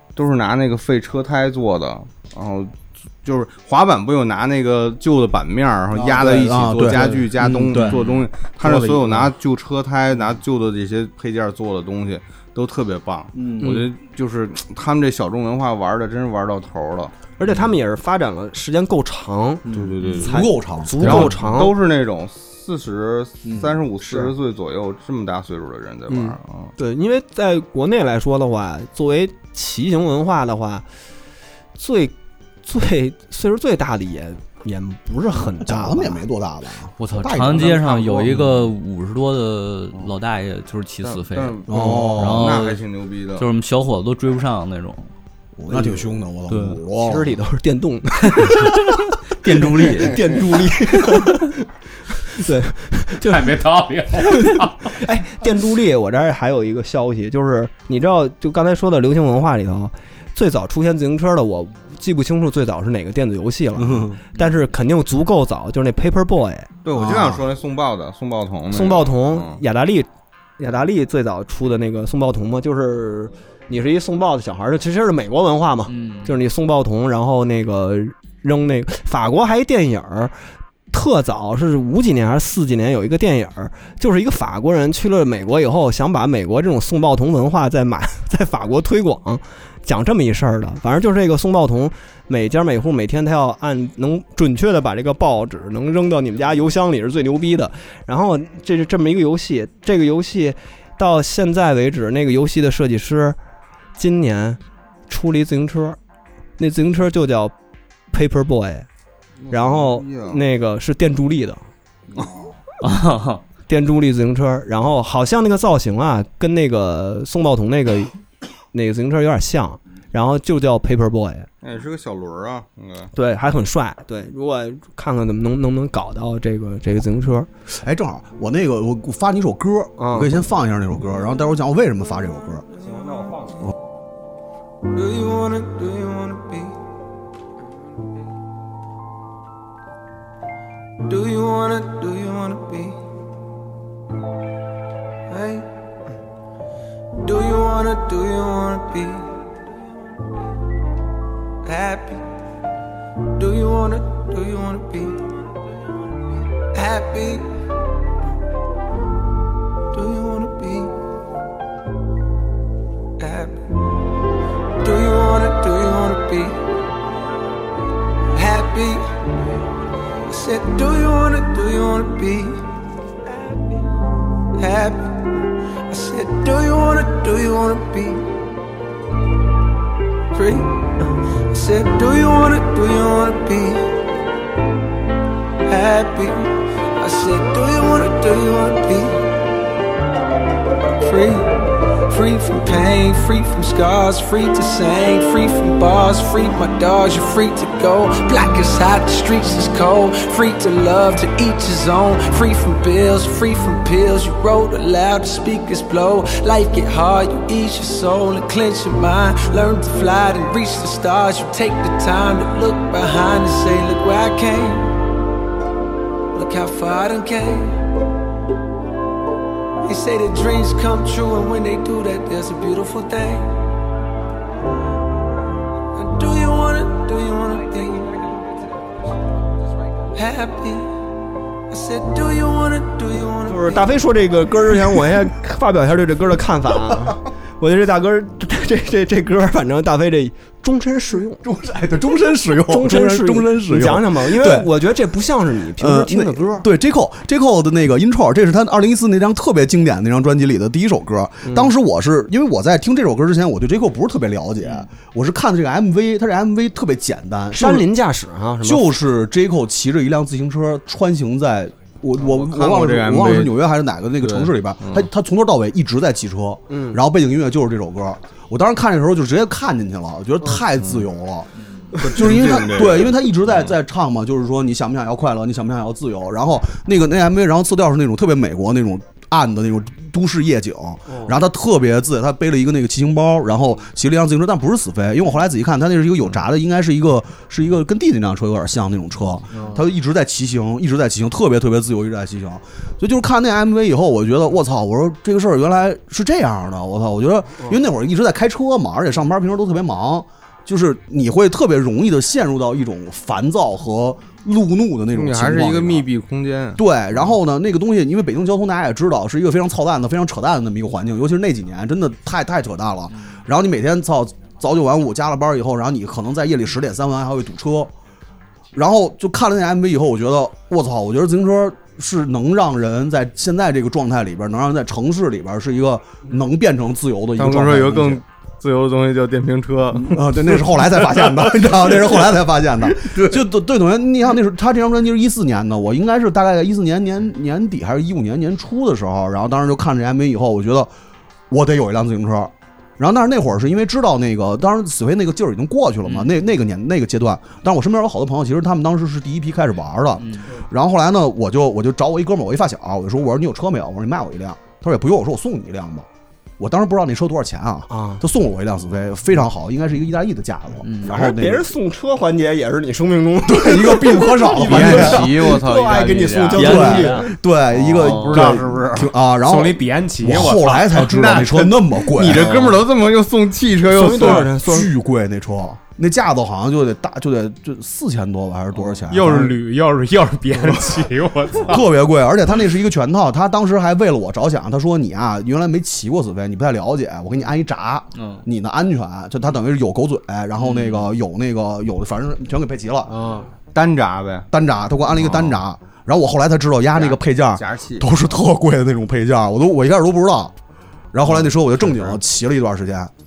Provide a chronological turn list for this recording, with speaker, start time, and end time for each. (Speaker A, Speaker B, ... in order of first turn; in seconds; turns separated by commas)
Speaker A: 0.1-17.1, Speaker B: 5.9-8.0, Speaker C: 7.7-8.2, Speaker D: 8.6-9.3, Speaker B: 13.3-13.8, Speaker E: 13.6-13.9, Speaker E: 17.4-19.7, Speaker A: 19.7-20.4, Speaker E: 20.2-21.8, Speaker B: 20.2-21.0, Speaker A: 21.0-26.7, Speaker D: 21.0-21.3, Speaker B: 23.4-23.7, Speaker E: 26.1-30.8, Speaker E: 31.8-36.2, Speaker B: 35.6-38.5, Speaker C: 37.0-42.8, Speaker A: 41.0-43.5, Speaker B: 41.7-42.6, Speaker C: 43.4-45.1, Speaker B: 45.6-47.3, Speaker C: 46.5-46.8, Speaker E: 47.0-48.9, Speaker C: 48.3-50.5, Speaker E: 49.8-66.7, Speaker D: 53.2-54.9, Speaker B: 63.8-64.2, Speaker A: 66.8-69.6, Speaker B: 66.9-67.5, Speaker E: 68.7-70.1, Speaker E: 70.6-80.3, Speaker C: 75.9-76.3, Speaker E: 80.9-103.4, Speaker E: 104.0-106.0, Speaker E: 106.6-107.5, Speaker E: 108.1-108.9, Speaker A: 109.4-110.4, Speaker E: 109.5-111.6, Speaker A: 112.1-112.4, Speaker C: 112.8-113.4, Speaker E: 113.7-118.1, Speaker E: 118.7-121.5, Speaker A: 121.6-123.1, Speaker E: 123.1-127.5, Speaker B: 127.7-132.7, Speaker E: 130.0-130.3, Speaker F: 134.9-136.7, Speaker F: 141.1-142.9, Speaker F: 145.3-145.6, Speaker F: 147.2-149.2, Speaker F: 151.7-152.2, Speaker F: 153.4-155.2, Speaker F: 156.7-157.4, Speaker F: 159.9-160.9, Speaker F: 163.2-163.6, Speaker F: 164.8-166.5, Speaker F: 168.3-169.0, Speaker F: 170.3-172.6, Speaker F: 174.6-175.1, Speaker F: 175.9-178.2, Speaker F: 180.3-180.7, Speaker F: 181.5-183.8, Speaker F: 185.7-186.4, Speaker F: 187.0-189.1, Speaker F: 191.0-191.4, Speaker F: 192.1-214.8, Speaker F: 216.3-217.7, Speaker F: 219.9-223.4, Speaker F: 226.0-228.2, Speaker F: 230.2-230.8, Speaker F: 231.7-233.8, Speaker E: 233.4-241.4, Speaker B: 241.4-244.7, Speaker E: 242.7-246.7, Speaker B: 245.8-257.9, Speaker E: 251.4-251.7, Speaker E: 257.5-258.8, Speaker B: 258.6-306.1, Speaker A: 262.1-263.6, Speaker A: 264.2-265.1, Speaker E: 266.7-267.0, Speaker A: 270.8-271.1, Speaker A: 272.0-273.7, Speaker A: 305.1-306.8, Speaker B: 306.8-317.9, Speaker B: 318.7-328.2, Speaker A: 327.4-330.3, Speaker B: 329.9-340.9, Speaker B: 341.5-356.1, Speaker C: 346.1-346.3, Speaker C: 350.2-350.5, Speaker B: 356.6-361.6, Speaker E: 357.9-358.2, Speaker C: 360.8-361.2, Speaker E: 361.1-367.3, Speaker B: 363.4-365.3, Speaker A: 364.6-369.1, Speaker C: 366.5-367.2, Speaker B: 366.6-372.8, Speaker C: 368.0-368.5, Speaker D: 369.4-371.2, Speaker A: 370.9-374.5, Speaker E: 373.9-374.9, Speaker B: 374.0-379.5, Speaker D: 379.1-381.8, Speaker B: 380.6-380.9, Speaker B: 381.6-393.1, Speaker C: 388.1-388.4, Speaker C: 390.6-391.1, Speaker D: 393.1-393.5, Speaker A: 393.7-394.5, Speaker B: 394.5-400.5, Speaker A: 395.1-395.6, Speaker A: 396.9-398.1, Speaker B: 401.1-403.1